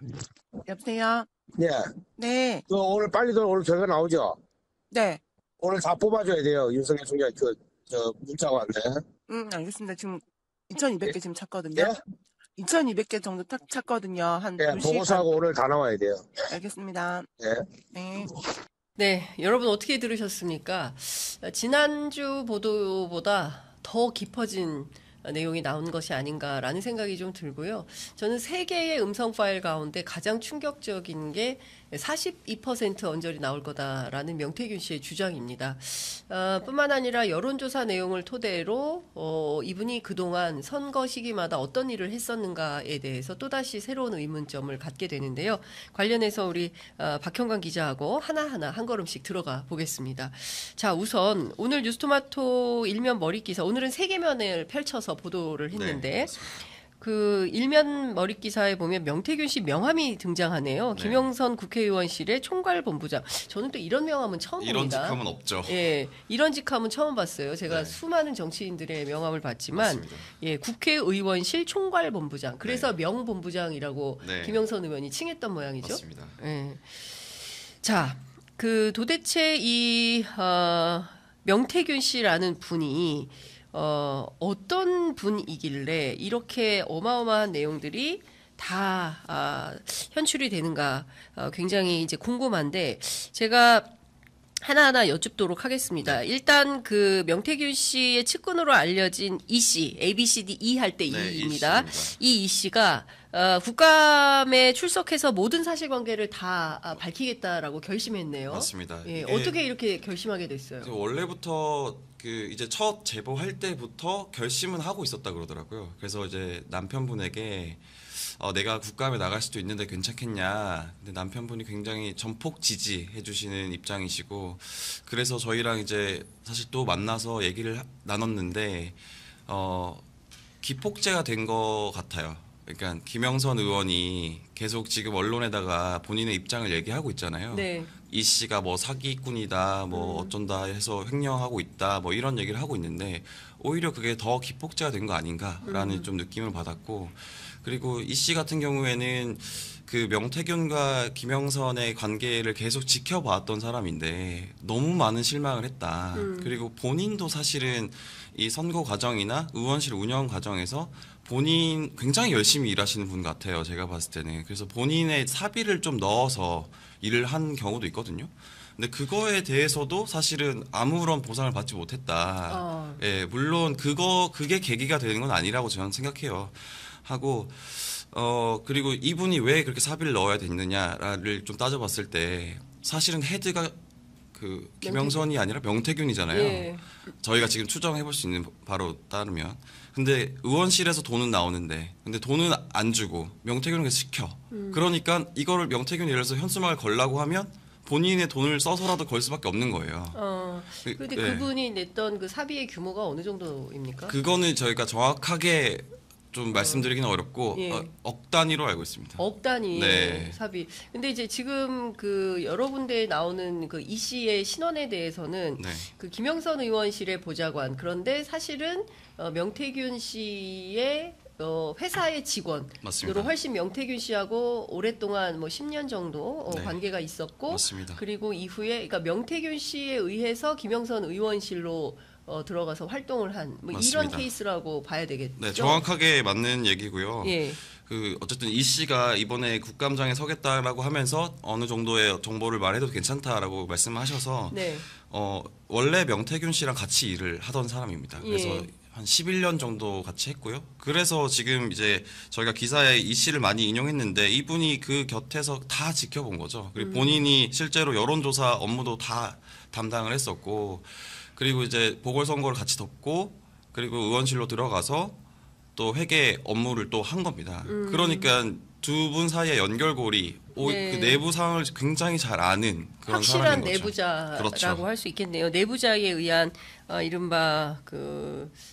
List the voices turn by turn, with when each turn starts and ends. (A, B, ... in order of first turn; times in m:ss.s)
0:00.7-0:01.3 A
0:01.6-0:01.9 B
0:02.2-0:02.6 A
0:02.7-0:04.4 B
0:04.9-0:05.2 A
0:05.6-0:09.0 B
0:09.3-0:12.0 A
0:12.6-0:15.3 A
0:14.6-0:16.3 B
0:16.5-0:17.3 A
0:17.9-0:18.3 A
0:19.0-0:56.3 C
0:55.7-0:56.6 D
0:57.0-1:33.9 C
1:00.9-1:01.3 D
1:04.6-1:05.9 D
1:07.7-1:08.0 D
1:09.7-1:10.3 D
1:12.6-1:12.9 D
1:14.2-1:14.6 D
1:15.8-1:16.4 D
1:34.6-1:50.9 C
1:41.1-1:42.2 D
1:48.5-1:49.6 D
1:50.8-2:09.0 D
2:09.5-2:10.0 D
2:10.6-3:03.8 D
2:17.5-2:17.9 C
2:19.9-2:20.3 C
2:25.6-2:26.1 C
2:36.2-2:36.6 C
2:52.5-2:53.0 C
3:04.3-3:20.2 D
3:04.8-3:05.2 C
3:06.3-3:06.8 C
3:14.5-3:14.8 C
3:20.1-3:24.2 C
3:20.8-3:21.5 D
3:24.1-3:30.4 D
3:26.5-3:26.9 C
3:27.5-3:27.9 C
3:29.2-3:55.8 C
3:35.6-3:35.9 D
3:42.8-3:43.3 D
3:46.5-3:46.8 D
3:47.5-3:48.0 D
3:53.7-3:54.3 D
3:55.4-4:25.2 D
3:57.2-3:57.6 C
4:04.5-4:04.9 C
4:08.2-4:08.7 C
4:16.8-4:17.2 C
4:25.8-4:34.8 D
4:27.6-4:28.3 C
4:30.6-4:31.2 C
4:33.1-4:38.6 C